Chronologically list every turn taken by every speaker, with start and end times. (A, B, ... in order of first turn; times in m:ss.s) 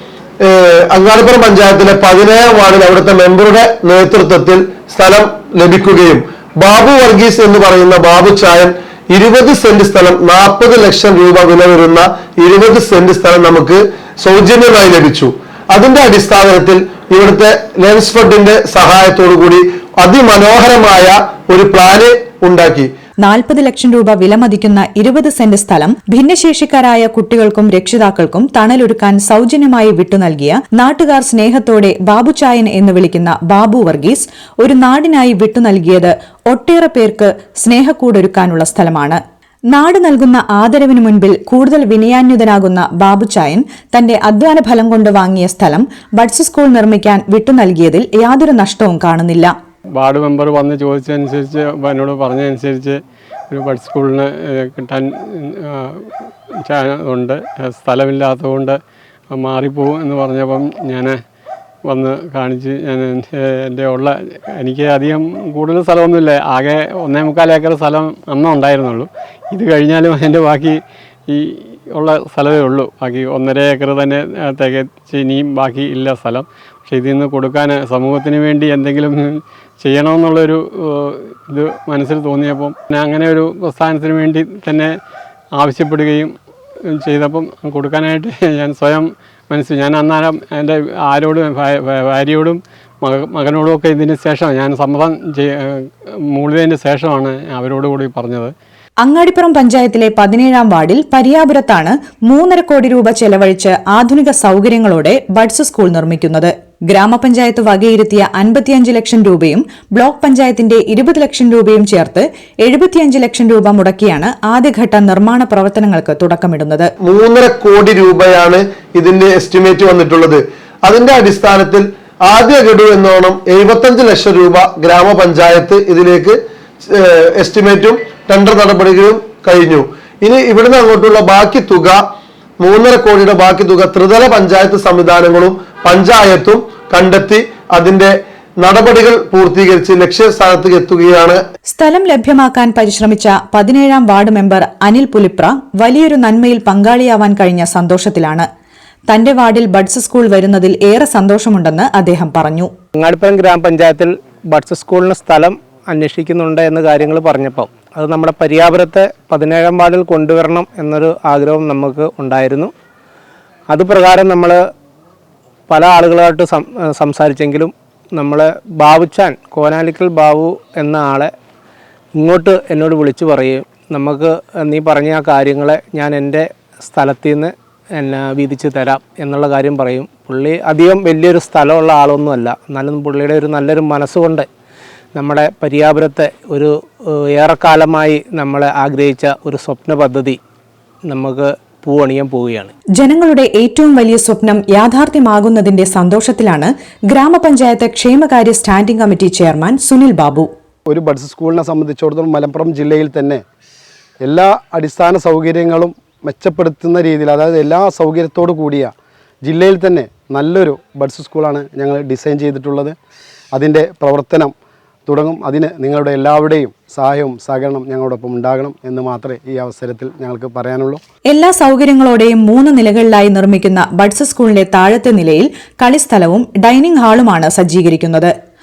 0:00.4-0:22.9 A
0:23.2-0:39.2 B
0:39.7-0:49.5 B
0:50.0-0:55.7 C
0:56.7-0:58.8 C
0:59.4-1:01.2 C
1:01.9-1:10.8 C
1:11.9-1:24.9 C
1:25.6-1:26.3 C
1:27.0-1:38.5 C
1:39.0-1:56.9 B
1:57.0-2:06.4 A
2:06.9-2:12.0 A
2:12.6-2:21.4 A
2:21.7-2:28.5 B
2:29.1-2:32.7 B
2:33.0-2:42.7 D
2:43.7-2:44.6 D
2:45.7-2:51.3 D
2:52.2-3:04.5 D
3:05.2-3:10.4 D
3:11.1-3:12.7 D
3:13.0-3:20.5 B
3:20.9-3:23.4 E
3:24.2-3:33.0 E
3:33.5-3:34.5 E
3:35.1-3:41.0 E
3:41.3-3:48.3 B